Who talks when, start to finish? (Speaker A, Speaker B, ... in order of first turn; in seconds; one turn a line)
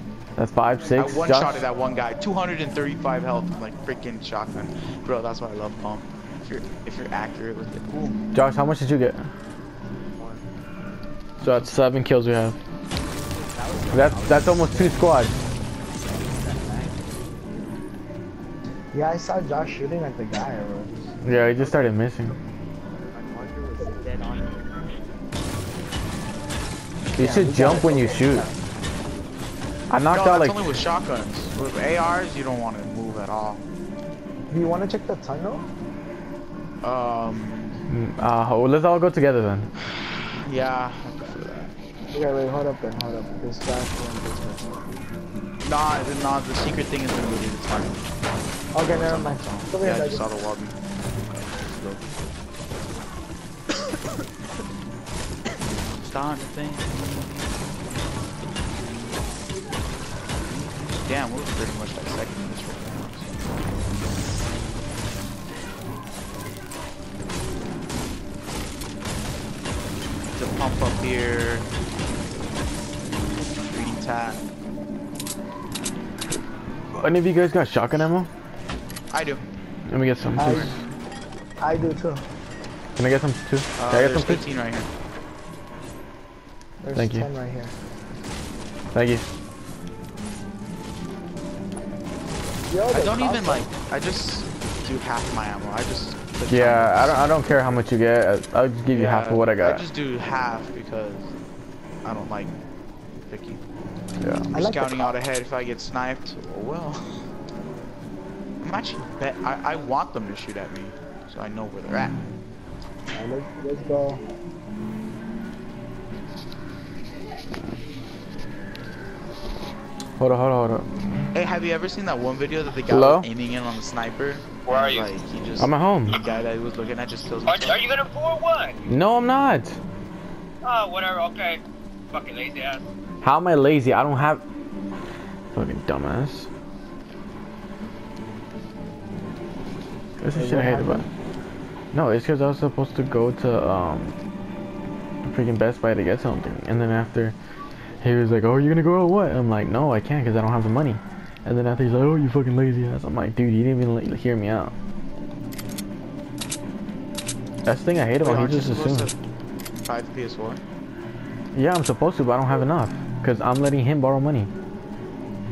Speaker A: 0.3-1.6
Speaker B: 0.9-8.2
Speaker A: 8.3-9.2
Speaker C: 10.1-10.4
Speaker A: 11.4-12.6
Speaker C: 13.0-15.1
Speaker A: 13.9-15.3
Speaker C: 15.9-17.6
Speaker D: 18.9-21.1
Speaker A: 21.2-22.3
Speaker C: 21.6-21.8
Speaker C: 23.1-25.0
Speaker A: 27.2-28.5
Speaker D: 27.2-28.5
Speaker A: 29.9-30.6
Speaker B: 30.1-33.6
Speaker D: 34.5-35.7
Speaker B: 36.8-37.8
Speaker A: 37.9-39.7
Speaker B: 40.4-41.7
Speaker D: 42.1-44.9
Speaker B: 45.6-48.0
Speaker D: 48.7-50.2
Speaker B: 48.8-50.7
Speaker C: 51.7-52.0
Speaker B: 55.9-57.8
Speaker B: 60.5-63.4
Speaker B: 70.3-71.7
Speaker B: 73.6-74.4
Speaker A: 76.9-78.3
Speaker B: 79.1-79.4
Speaker A: 79.9-80.7
Speaker B: 80.4-80.7
Speaker D: 80.4-80.7
Speaker D: 81.6-82.2
Speaker A: 83.0-84.4
Speaker B: 83.8-84.9
Speaker D: 86.8-87.7
Speaker A: 86.9-87.2
Speaker A: 88.9-89.2
Speaker D: 92.7-93.7
Speaker B: 92.9-97.3
Speaker A: 96.5-99.8
Speaker B: 98.9-101.3
Speaker B: 102.0-102.5
Speaker B: 103.2-103.6
Speaker A: 104.2-104.5
Speaker B: 104.5-107.3
Speaker D: 104.5-105.1
Speaker B: 108.6-112.2
Speaker D: 113.1-114.2
Speaker A: 120.2-120.9
Speaker B: 121.3-127.8
Speaker A: 122.9-123.3
Speaker E: 124.6-125.2
Speaker A: 125.6-126.2
Speaker E: 127.4-128.8
Speaker A: 128.9-129.8
Speaker E: 130.6-131.6
Speaker E: 132.1-132.8
Speaker A: 133.2-134.4
Speaker A: 135.5-136.5
Speaker A: 140.2-141.1
Speaker D: 140.3-141.1
Speaker A: 141.9-144.2
Speaker A: 145.2-147.3
Speaker A: 148.0-154.7
Speaker A: 157.6-159.1
Speaker B: 158.2-159.2
Speaker B: 159.8-160.6
Speaker A: 161.5-164.5